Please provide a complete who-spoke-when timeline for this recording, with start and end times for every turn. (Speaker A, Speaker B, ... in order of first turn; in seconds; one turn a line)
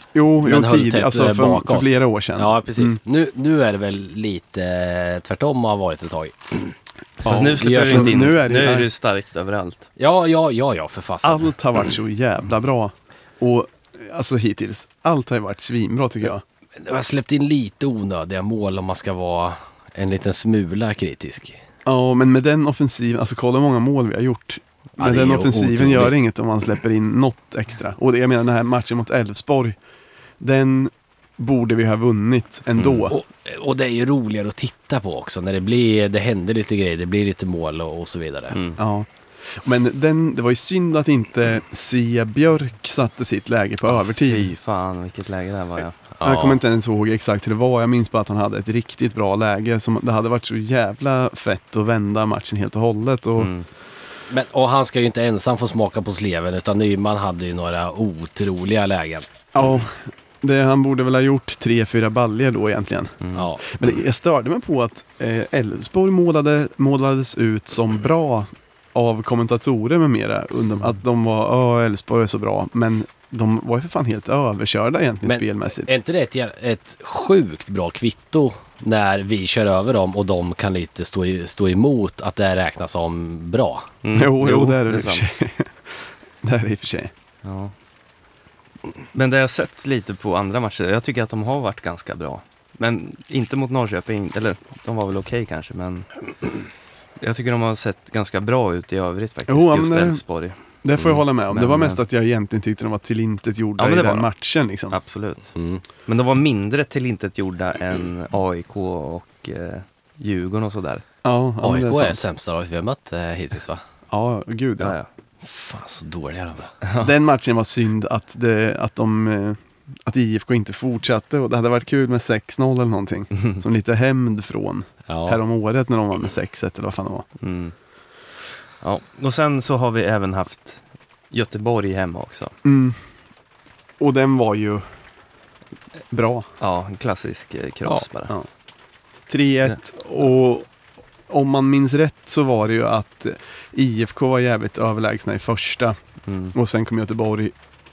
Speaker A: 0.1-3.0
Speaker B: 0.4-6.8
Speaker A: 7.2-8.9
Speaker C: 7.3-9.9
Speaker B: 7.3-8.3
Speaker B: 10.0-11.5
Speaker A: 11.2-16.4
Speaker B: 16.8-21.6
Speaker A: 21.9-29.8
Speaker B: 25.0-26.2
Speaker A: 30.4-33.1
Speaker C: 32.8-33.1
Speaker B: 33.1-38.6
Speaker C: 38.5-38.8
Speaker A: 38.8-44.5
Speaker C: 43.9-46.0
Speaker B: 46.2-46.6
Speaker A: 46.2-53.5
Speaker C: 53.4-53.7
Speaker B: 54.3-59.2
Speaker A: 59.5-75.9
Speaker C: 63.2-63.5
Speaker B: 63.3-63.6
Speaker B: 75.3-83.9
Speaker C: 84.0-85.3
Speaker A: 84.1-87.1
Speaker C: 87.4-87.7
Speaker C: 89.1-96.1
Speaker C: 97.2-100.6
Speaker A: 99.5-100.2
Speaker A: 100.8-105.0
Speaker C: 101.5-102.0
Speaker C: 103.8-104.3
Speaker C: 104.9-105.5
Speaker B: 105.5-105.8
Speaker C: 106.1-111.0
Speaker A: 111.2-112.2
Speaker B: 111.6-113.8
Speaker A: 114.1-115.0
Speaker C: 114.8-115.1
Speaker B: 115.4-116.7
Speaker C: 116.8-117.1
Speaker A: 117.0-127.3
Speaker C: 123.3-123.6
Speaker B: 125.1-125.4
Speaker C: 127.4-127.7
Speaker C: 128.8-132.6
Speaker A: 132.7-133.0
Speaker A: 134.0-134.8
Speaker A: 136.1-136.5
Speaker C: 136.6-138.3
Speaker A: 137.9-138.5
Speaker A: 139.3-140.7
Speaker A: 141.3-146.0
Speaker C: 146.3-146.5
Speaker A: 146.5-147.5